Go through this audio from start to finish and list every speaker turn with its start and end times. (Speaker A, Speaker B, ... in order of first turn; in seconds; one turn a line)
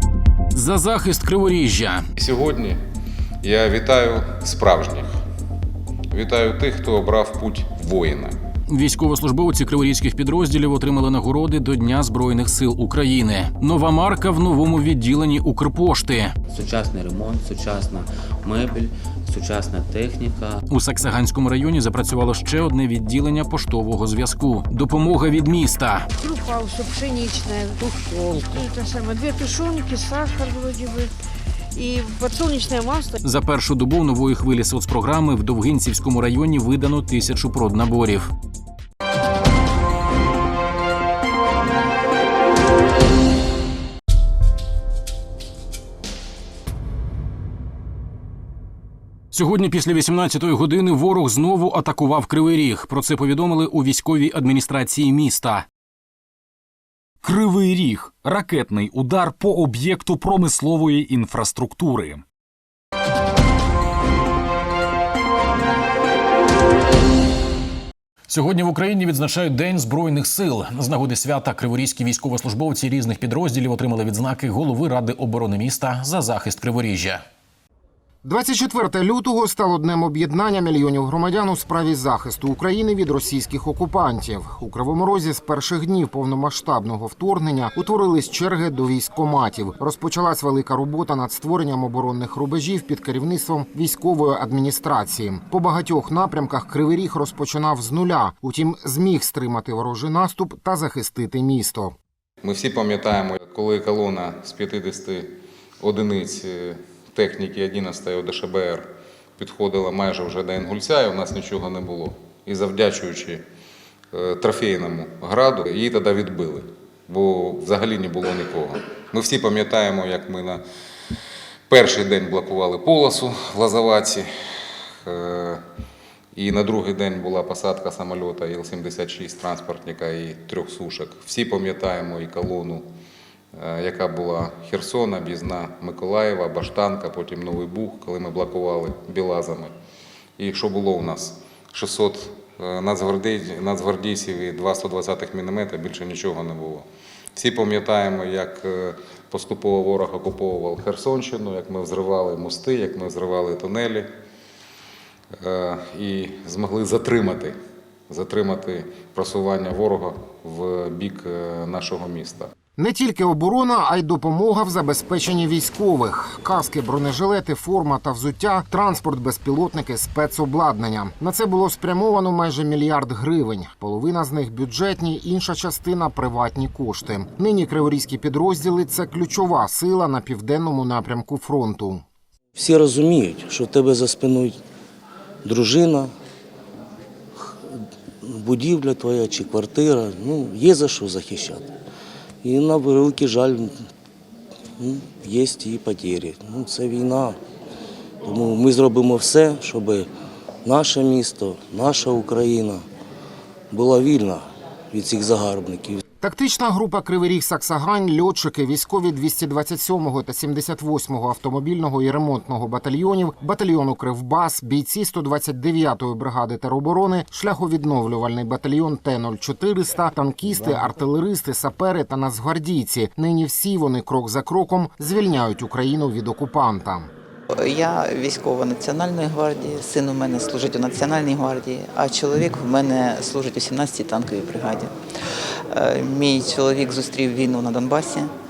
Speaker A: 0.5-2.0
Speaker B: 2.2-2.8
Speaker B: 3.4-5.1
Speaker B: 6.1-8.3
Speaker A: 8.7-16.3
Speaker C: 16.5-20.6
Speaker A: 20.7-26.1
Speaker D: 26.2-31.1
Speaker D: 31.8-33.1
Speaker A: 33.2-38.3
Speaker A: 49.3-55.6
Speaker E: 57.2-62.2
Speaker A: 68.3-77.2
Speaker F: 78.2-101.9
Speaker B: 102.4-108.9
Speaker B: 109.4-113.4
Speaker B: 114.1-120.6
Speaker B: 121.7-124.3
Speaker B: 125.0-125.6
Speaker B: 126.3-132.8
Speaker B: 133.5-139.7
Speaker B: 140.4-154.1
Speaker B: 155.3-157.6
Speaker B: 158.1-162.5
Speaker F: 162.8-182.0
Speaker G: 182.6-184.6
Speaker G: 185.4-186.1
Speaker G: 188.2-191.7
Speaker G: 192.4-193.8
Speaker G: 194.8-197.4
Speaker G: 198.2-200.1
Speaker G: 200.6-202.8
Speaker G: 203.7-206.0
Speaker F: 206.2-227.1
Speaker H: 227.5-234.9
Speaker H: 235.7-238.3